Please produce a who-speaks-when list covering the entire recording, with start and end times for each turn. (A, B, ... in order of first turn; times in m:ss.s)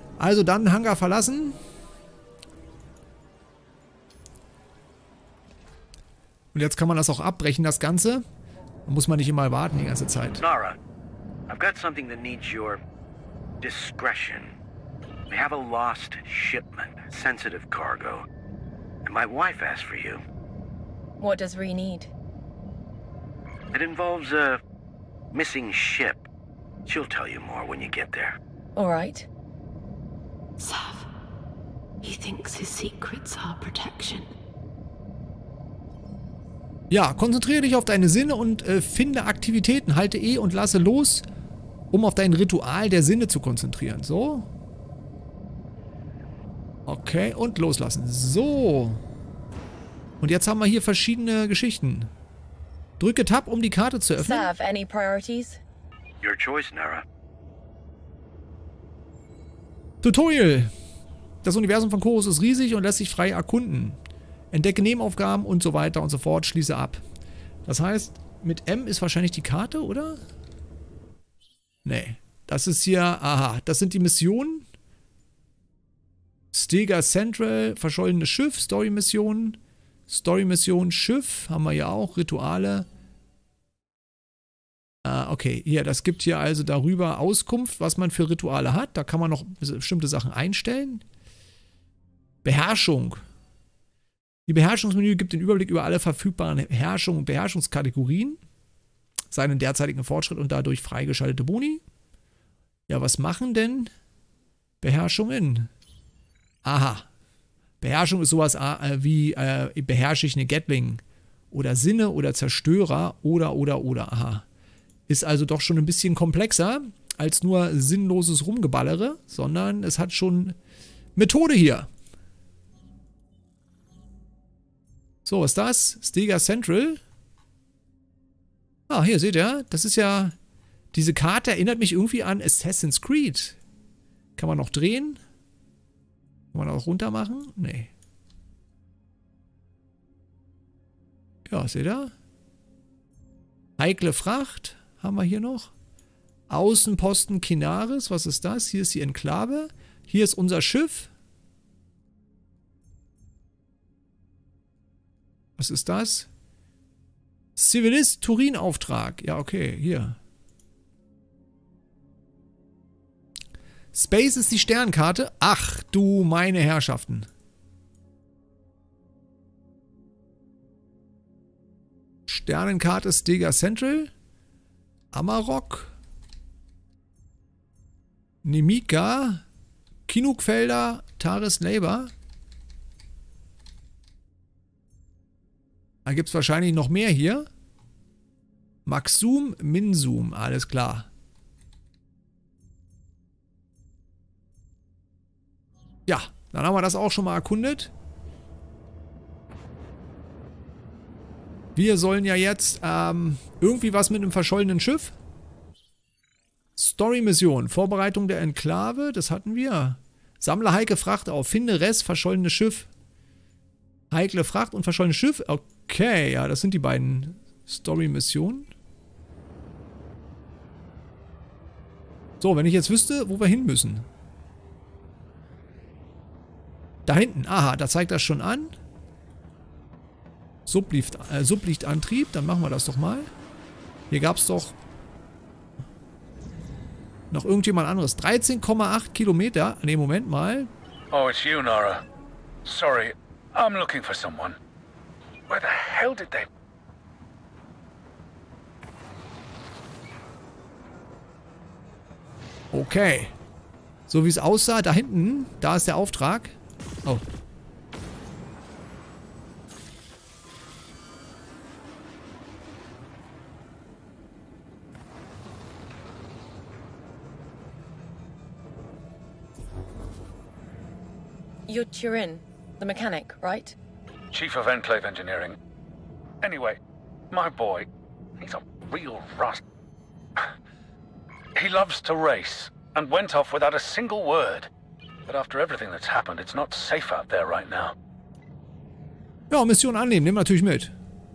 0:00.2-0:01.6 A
0:06.5-0:08.2 A
0:08.9-0:10.4 A
0:10.4-0:10.8 B
0:11.5-0:12.8 B
0:13.6-0:14.5 B
0:15.3-0:18.3 B
0:19.0-0:20.2 B
0:21.2-0:22.1 C
0:23.7-0:24.6 B
0:25.3-0:26.3 B
0:26.9-0:28.4 B
0:28.8-0:29.3 C
0:30.6-0:31.1 D
0:32.0-0:34.3 D
0:36.9-0:41.3 A
0:41.9-0:44.5 A
0:46.9-0:49.0 A
0:50.2-0:52.1 A
0:53.0-0:54.5 A
0:54.2-0:55.6 C
0:56.2-0:57.0 B
1:00.0-1:00.7 A
1:01.4-1:04.0 A
1:04.5-1:07.0 A
1:07.7-1:10.2 A
1:11.8-1:14.7 A
1:16.5-1:22.9 A
1:25.0-1:31.0 A
1:32.4-1:33.2 A
1:34.5-1:38.4 A
1:39.3-1:41.8 A
1:42.9-1:43.9 A
1:44.8-1:45.7 A
1:46.6-1:47.1 A
1:47.8-1:54.4 A
1:55.1-2:00.6 A
2:01.2-2:01.9 A
2:05.2-2:07.0 A
2:08.9-2:10.4 A
2:10.9-2:13.6 A
2:14.4-2:15.2 A
2:16.5-2:17.9 A
2:21.5-2:22.1 A
2:23.8-2:25.7 A
2:26.5-2:31.1 A
2:35.6-2:36.3 A
2:37.6-2:40.2 A
2:43.9-2:47.3 A
2:52.3-2:54.1 A
2:55.1-2:55.9 A
2:58.4-2:59.4 A
3:00.1-3:02.1 A
3:06.0-3:07.5 A
3:08.9-3:11.1 A
3:16.1-3:17.9 A
3:21.8-3:25.2 A
3:26.8-3:32.9 A
3:34.1-3:38.7 A
3:42.4-3:44.1 A
3:47.1-3:48.8 A
3:50.7-3:53.3 A
3:54.1-3:54.8 A
3:57.3-4:00.7 A
4:01.1-4:02.0 E
4:02.6-4:04.6 E
4:05.5-4:06.5 E
4:12.7-4:13.4 A
4:14.1-4:17.2 A
4:31.7-4:33.8 C
4:34.3-4:35.6 E
4:36.4-4:36.8 E
4:37.3-4:37.9 E
4:38.4-4:39.6 E
4:41.6-4:44.7 E
4:45.3-4:48.0 E
4:49.5-4:50.9 A